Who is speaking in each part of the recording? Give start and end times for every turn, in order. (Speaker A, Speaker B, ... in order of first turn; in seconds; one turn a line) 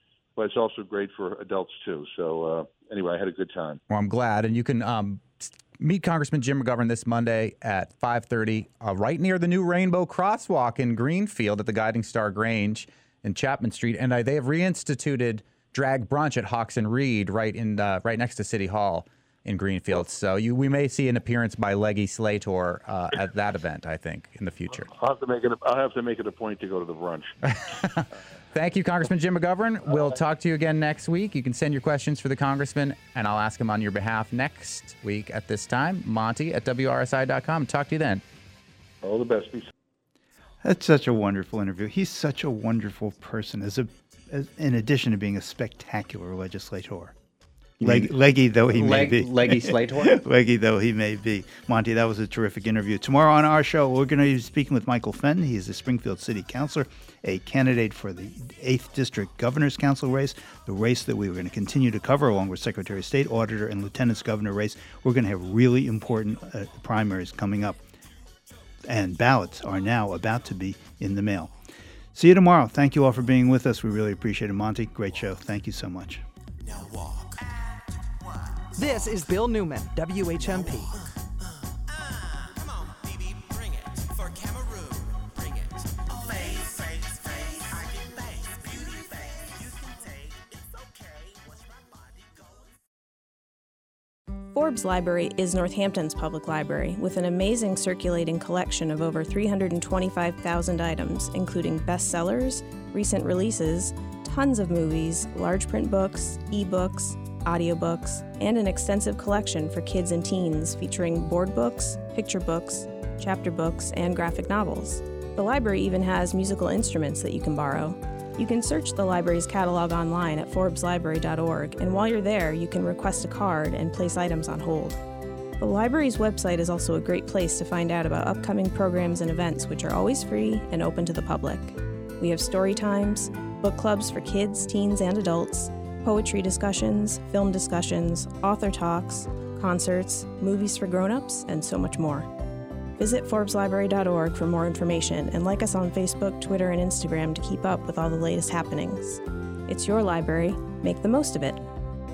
Speaker A: 0.4-3.8
Speaker B: 3.9-24.9
Speaker A: 24.7-27.3
Speaker B: 27.5-38.2
Speaker A: 29.9-30.2
Speaker A: 39.0-39.7
Speaker C: 40.6-47.1
Speaker B: 47.8-48.1
Speaker C: 47.8-67.8
Speaker B: 48.7-50.2
Speaker C: 68.8-71.5
Speaker C: 72.1-76.2
Speaker D: 78.8-81.0
Speaker E: 94.5-125.0
Speaker E: 125.6-142.3
Speaker E: 143.0-151.6